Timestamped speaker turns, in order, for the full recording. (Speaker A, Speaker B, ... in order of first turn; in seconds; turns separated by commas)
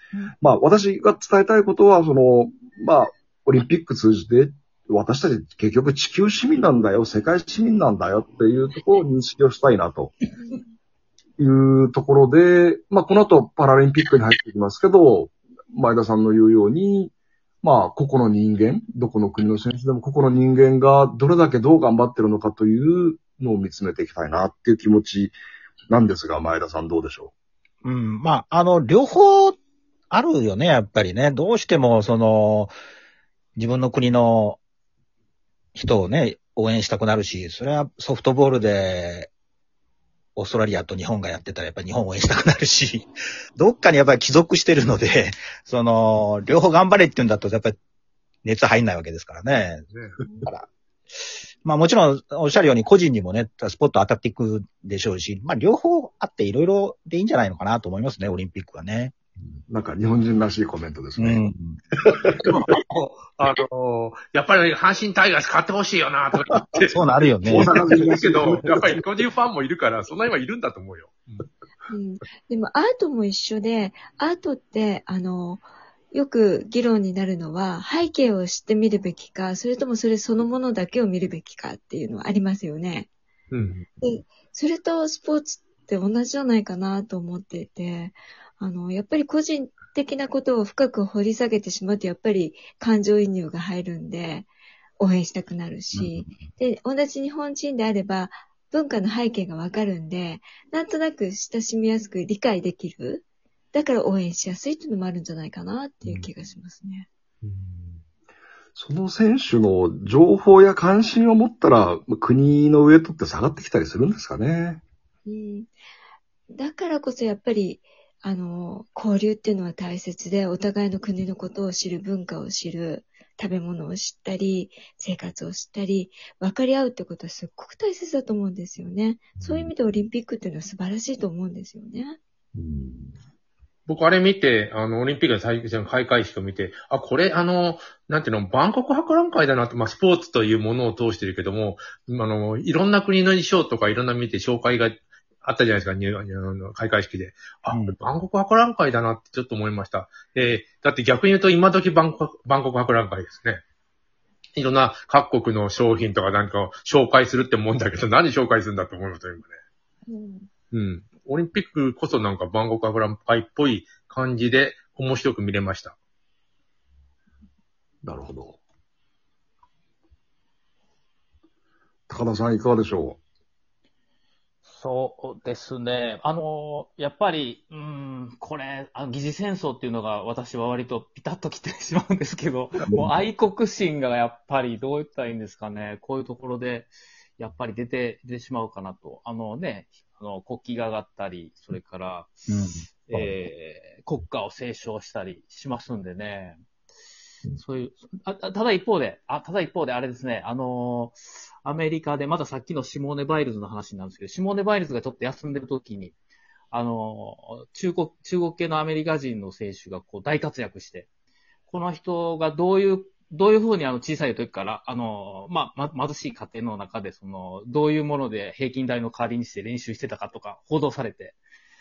Speaker A: 0.4-10.2, Speaker B: 10.3-10.7, Speaker A: 11.4-25.4, Speaker A: 25.9-27.3, Speaker C: 27.8-29.6, Speaker C: 30.1-32.7, Speaker C: 33.6-34.6, Speaker C: 35.8-39.3, Speaker C: 40.4-47.8, Speaker C: 48.4-49.9, Speaker D: 49.9-50.2, Speaker C: 51.6-59.1, Speaker A: 59.6-61.4, Speaker C: 61.2-61.8, Speaker D: 62.4-71.4, Speaker C: 66.9-67.9, Speaker A: 67.6-69.0, Speaker B: 71.9-83.1, Speaker D: 83.5-83.8, Speaker B: 84.0-107.1, Speaker C: 95.9-96.3, Speaker D: 107.4-108.0, Speaker A: 108.8-114.8, Speaker B: 115.3-115.7, Speaker B: 116.5-132.2, Speaker A: 129.4-129.8, Speaker A: 132.6-133.1, Speaker D: 133.9-153.6, Speaker C: 147.7-148.0, Speaker D: 154.6-159.6, Speaker B: 160.1-160.5, Speaker D: 160.7-166.0, Speaker A: 168.0-168.6, Speaker A: 172.1-173.2, Speaker E: 174.7-196.6, Speaker C: 182.9-183.2, Speaker C: 192.5-193.3, Speaker E: 197.5-206.1, Speaker E: 206.7-211.1, Speaker E: 211.7-221.4